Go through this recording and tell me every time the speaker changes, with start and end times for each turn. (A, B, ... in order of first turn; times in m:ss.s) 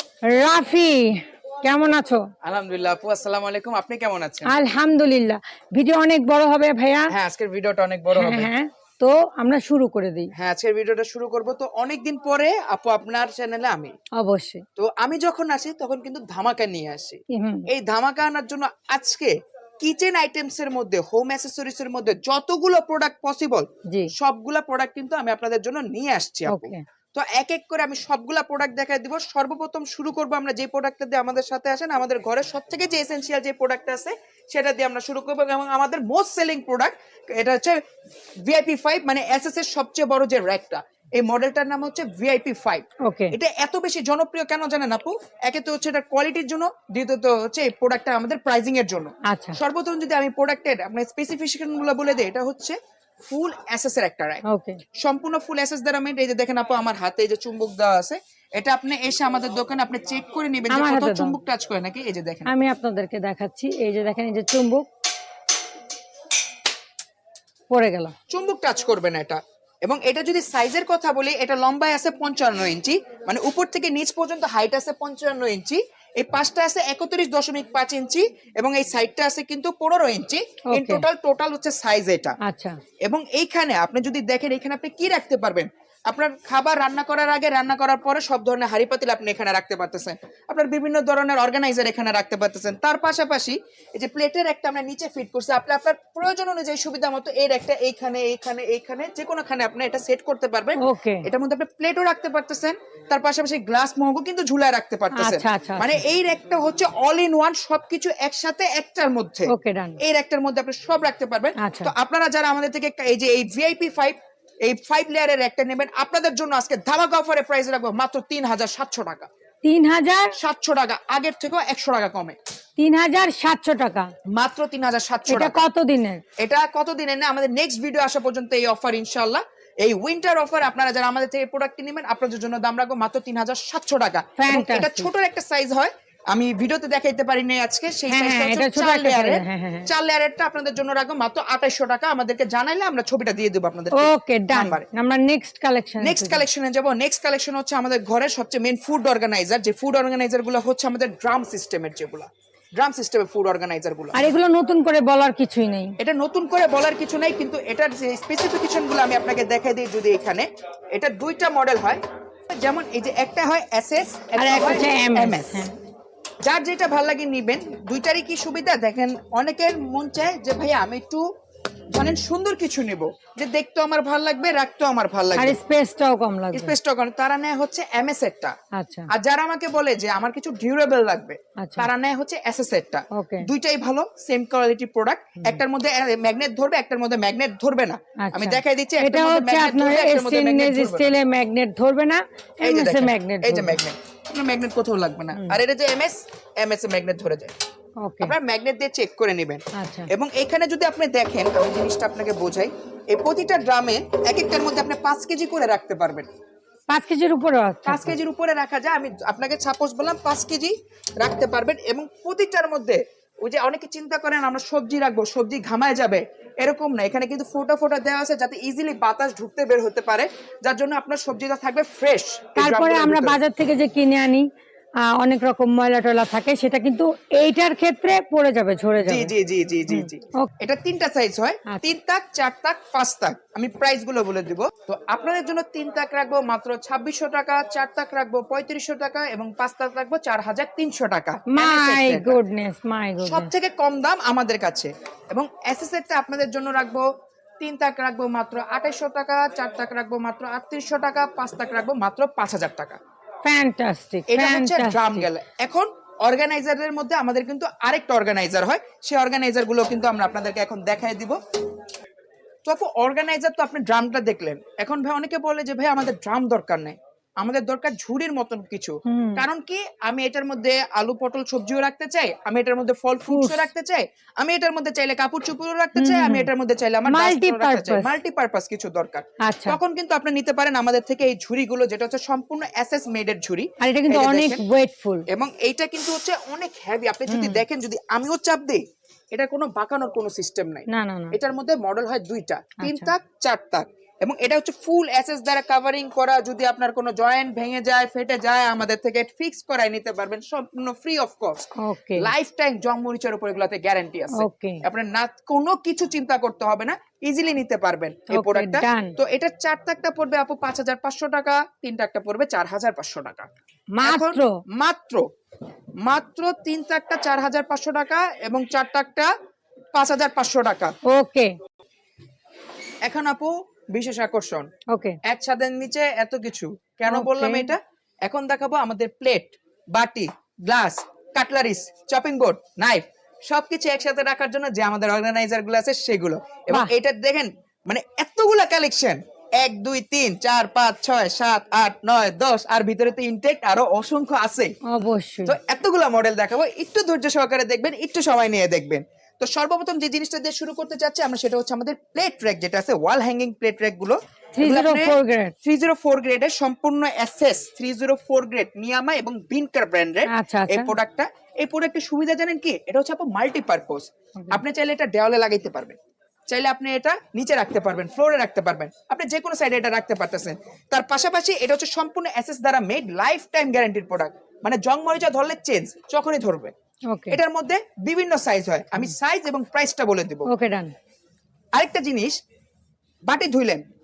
0:00.3-0:02.3 A
0:02.4-0:04.5 B
0:04.4-0:07.1 A
0:07.1-0:08.5 B
0:08.1-0:10.3 A
0:10.3-0:13.9 B
0:14.1-0:14.6 A
0:14.8-0:37.8 B
0:17.3-0:17.7 A
0:26.5-0:26.8 A
0:38.4-0:54.4 B
0:43.0-0:43.3 A
0:49.2-0:49.6 A
0:54.4-0:54.8 A
0:55.0-1:02.5 B
1:00.7-1:01.4 A
1:02.5-1:04.9 A
1:07.7-1:08.1 A
1:08.3-1:22.4 B
1:20.7-1:21.1 A
1:22.4-1:22.8 A
1:23.0-1:59.3 B
1:40.8-1:41.3 A
1:45.1-1:46.0 A
1:49.5-1:50.0 A
1:51.6-1:51.9 A
1:59.6-2:00.4 A
2:00.4-2:02.4 B
2:02.8-2:04.1 A
2:04.3-2:05.6 B
2:05.3-2:06.2 A
2:06.4-2:24.8 B
2:14.4-2:15.1 A
2:18.1-2:19.9 A
2:23.9-2:26.4 A
2:26.0-2:34.2 B
2:34.1-2:36.0 A
2:36.0-2:45.6 B
2:44.4-2:45.8 A
2:46.4-2:51.3 B
2:51.9-2:55.6 B
2:55.4-2:56.7 A
2:56.5-2:58.5 B
2:58.7-2:59.1 A
2:59.1-3:11.1 B
3:01.6-3:01.9 A
3:03.1-3:03.5 A
3:08.2-3:13.8 A
3:12.6-3:17.5 B
3:15.3-3:15.6 A
3:18.0-3:18.4 A
3:18.2-3:26.3 B
3:19.7-3:20.1 A
3:26.9-3:28.1 A
3:27.8-3:43.4 B
3:42.6-3:44.5 A
3:45.0-3:49.3 A
3:49.0-4:02.4 B
3:49.9-3:50.5 A
4:01.5-4:03.5 A
4:03.2-4:07.0 B
4:07.6-4:13.0 B
4:13.4-4:15.3 A
4:14.3-4:21.4 B
4:22.6-4:44.6 B
4:29.0-4:29.5 A
4:33.3-4:33.7 A
4:36.0-4:36.5 A
4:37.0-4:38.1 A
4:39.4-4:39.8 A
4:43.8-4:45.2 A
4:45.3-5:13.5 B
4:47.3-4:47.6 A
4:50.9-4:51.4 A
4:52.8-4:53.1 A
5:01.8-5:02.3 A
5:04.4-5:04.8 A
5:08.3-5:09.1 A
5:14.0-5:14.6 A
5:14.0-5:15.3 B
5:16.0-5:19.3 B
5:20.0-5:20.9 B
5:21.0-5:21.5 A
5:23.0-5:24.7 B
5:24.9-5:25.2 A
5:25.2-5:44.8 B
5:27.1-5:27.7 A
5:44.9-5:45.6 A
5:45.5-6:06.0 B
5:54.5-5:55.5 A
6:00.3-6:01.0 A
6:06.5-6:16.7 B
6:17.1-6:17.4 A
6:17.3-6:20.5 B
6:20.5-6:20.9 A
6:21.7-6:22.4 B
6:23.3-6:23.8 B